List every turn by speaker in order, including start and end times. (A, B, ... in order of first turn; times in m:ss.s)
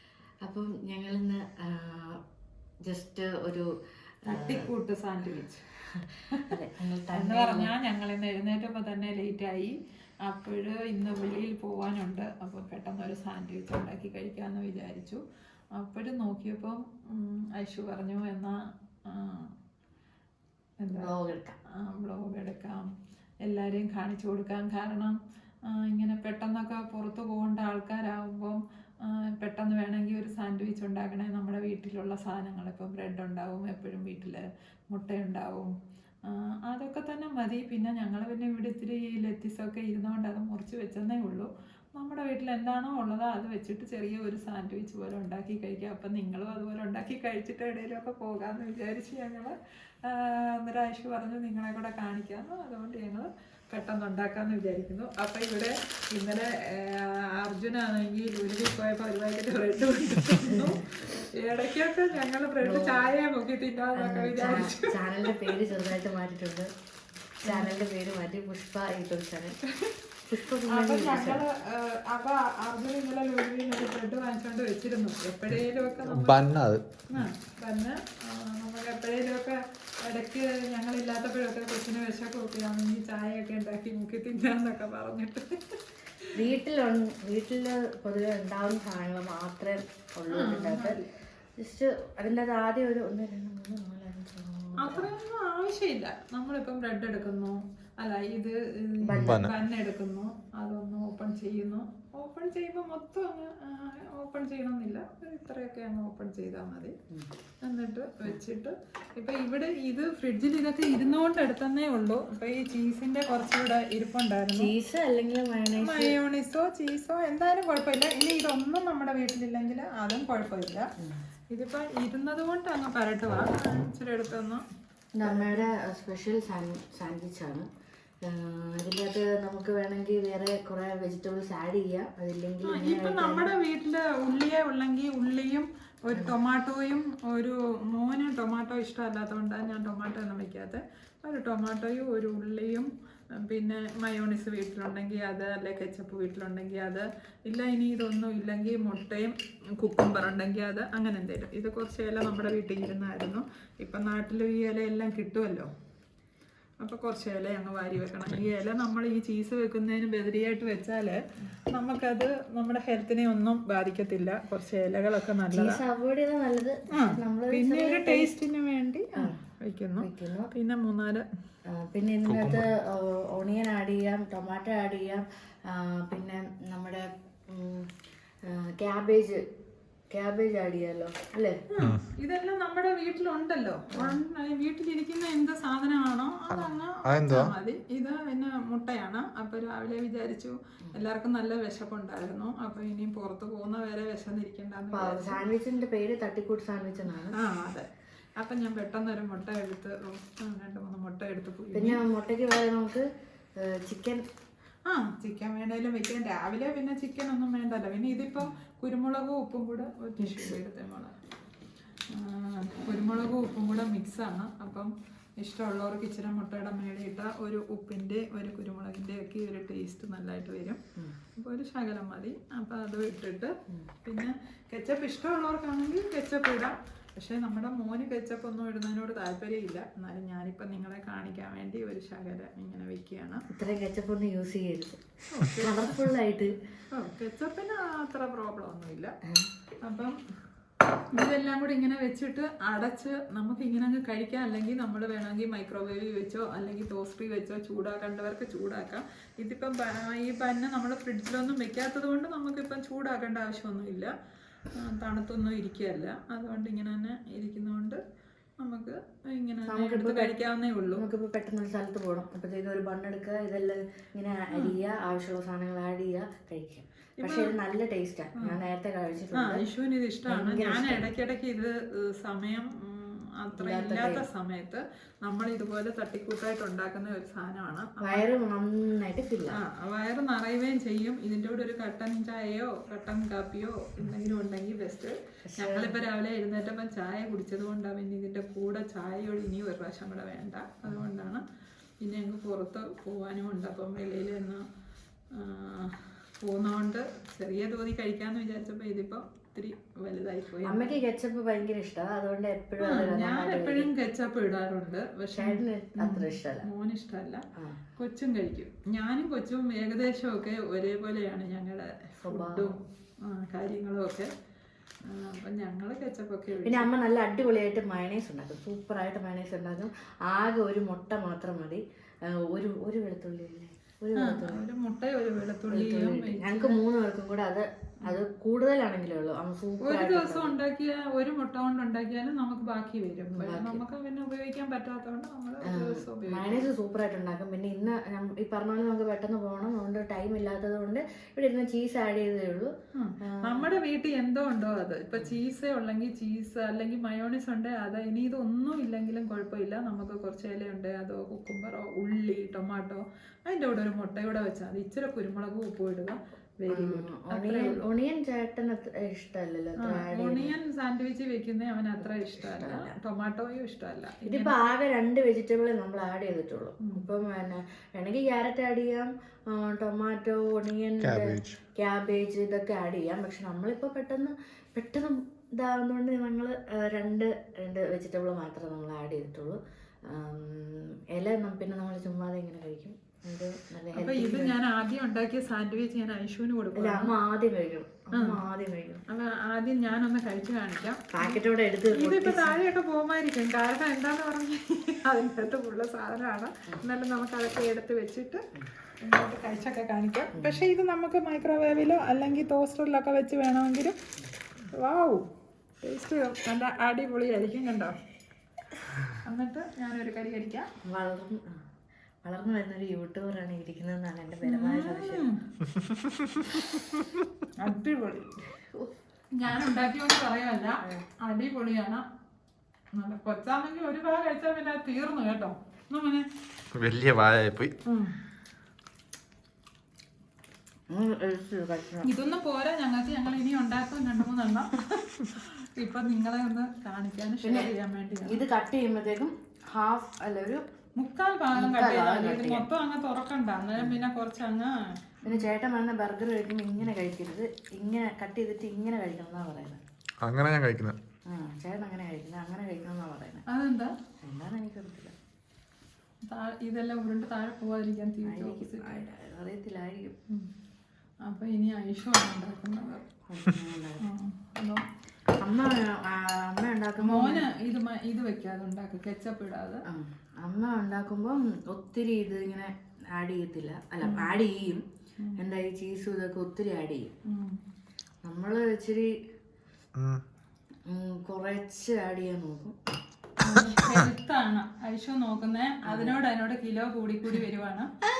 0:00.4-0:02.2 A
0:02.8-0:03.7 A
0:04.3-0:04.7 A
0:04.3-0:05.6 B
0:06.1-0:07.7 A
0:07.1-0:15.2 B
0:15.7-0:19.5 B
0:20.8-0:21.1 B
0:21.0-0:21.6 A
0:21.7-0:22.9 B
0:23.4-0:35.7 B
0:36.2-1:05.6 B
1:00.4-1:00.8 A
1:02.6-1:03.0 A
1:03.9-1:06.7 A
1:07.4-1:09.6 A
1:07.5-1:07.7 B
1:10.2-1:11.4 A
1:10.7-1:16.5 B
1:15.8-1:16.2 A
1:16.1-1:17.2 C
1:17.1-1:26.5 B
1:26.3-1:31.0 A
1:30.3-1:31.1 B
1:31.6-1:35.1 A
1:34.8-1:46.9 B
1:39.0-1:39.5 A
1:39.1-1:39.5 C
1:47.6-1:54.7 B
1:54.5-1:56.2 A
1:55.8-2:00.8 B
2:01.5-2:04.6 B
2:05.2-2:07.7 A
2:05.2-2:05.6 B
2:08.2-2:13.5 A
2:12.6-2:22.9 B
2:23.4-2:35.7 B
2:36.8-2:45.8 B
2:45.5-2:48.3 A
2:46.9-2:51.2 B
2:50.0-2:50.5 A
2:51.7-2:57.9 A
2:52.2-2:52.6 C
2:58.5-2:59.4 A
3:00.1-3:01.6 A
3:01.7-3:15.4 B
3:03.9-3:04.2 A
3:07.0-3:07.5 C
3:14.9-3:17.4 A
3:17.3-3:22.0 B
3:21.7-3:23.0 A
3:23.6-3:24.2 A
3:24.9-3:31.2 B
3:30.2-3:30.6 A
3:32.1-3:40.8 B
3:41.4-3:53.4 B
3:53.5-3:56.5 A
3:55.3-3:56.1 B
3:56.9-3:59.1 B
3:59.8-4:00.1 B
4:01.1-4:14.1 B
4:14.7-4:18.0 B
4:18.6-4:21.0 B
4:19.6-4:20.3 A
4:20.9-4:29.6 A
4:27.2-4:27.5 B
4:29.4-4:38.3 B
4:30.3-4:31.1 A
4:33.6-4:34.2 A
4:38.0-4:39.6 A
4:39.6-4:51.4 B
4:45.5-4:46.0 A
4:52.0-4:54.6 B
4:55.3-5:00.9 B
5:00.6-5:03.9 A
5:02.8-5:07.4 B
5:05.3-5:06.6 A
5:07.6-5:07.8 A
5:08.0-5:14.3 B
5:12.2-5:12.7 A
5:15.0-5:16.9 B
5:16.6-5:24.6 A
5:24.2-5:26.8 B
5:25.7-5:30.6 A
5:29.8-5:36.6 B
5:33.3-5:33.8 A
5:35.6-5:43.7 A
5:42.9-5:57.8 B
5:56.7-6:00.5 A
5:59.8-6:04.6 B
6:02.0-6:02.9 A
6:04.3-6:19.6 A
6:11.0-6:11.6 C
6:20.1-6:24.6 A
6:23.9-6:27.1 B
6:26.8-6:29.0 A
6:28.1-6:28.4 B
6:29.1-6:38.4 B
6:31.1-6:32.6 A
6:39.0-6:44.0 B
6:40.3-6:40.6 A
6:44.7-6:45.3 B
6:45.8-6:48.0 B
6:49.1-6:50.7 B
6:50.8-6:51.6 A
6:52.2-6:55.3 A
6:54.4-6:55.4 B
6:57.6-6:58.3 B
6:58.5-6:58.9 A
6:59.3-7:02.0 B
7:02.9-7:06.3 B
7:06.7-7:07.7 C
7:07.8-7:08.1 B
7:10.9-7:12.1 A
7:12.0-7:18.4 B
7:17.4-7:20.6 A
7:21.0-7:24.7 B
7:21.5-7:22.7 A
7:25.2-7:29.8 A
7:30.2-7:31.0 C
7:31.3-7:33.4 A
7:33.5-7:33.9 B
7:34.2-7:35.1 A
7:36.3-7:39.1 B
7:38.2-7:40.1 A
7:41.2-7:43.0 B
7:43.3-7:44.0 A
7:44.0-7:44.8 B
7:45.4-7:47.5 A
7:47.0-7:49.8 B
7:49.9-7:54.8 A
7:54.0-7:54.3 B
7:55.4-7:57.1 A
7:57.2-7:57.6 B
7:58.2-7:59.1 A
8:00.0-8:00.2 C
8:00.9-8:02.7 A
8:03.4-8:07.9 B
8:03.5-8:04.0 C
8:05.8-8:06.2 A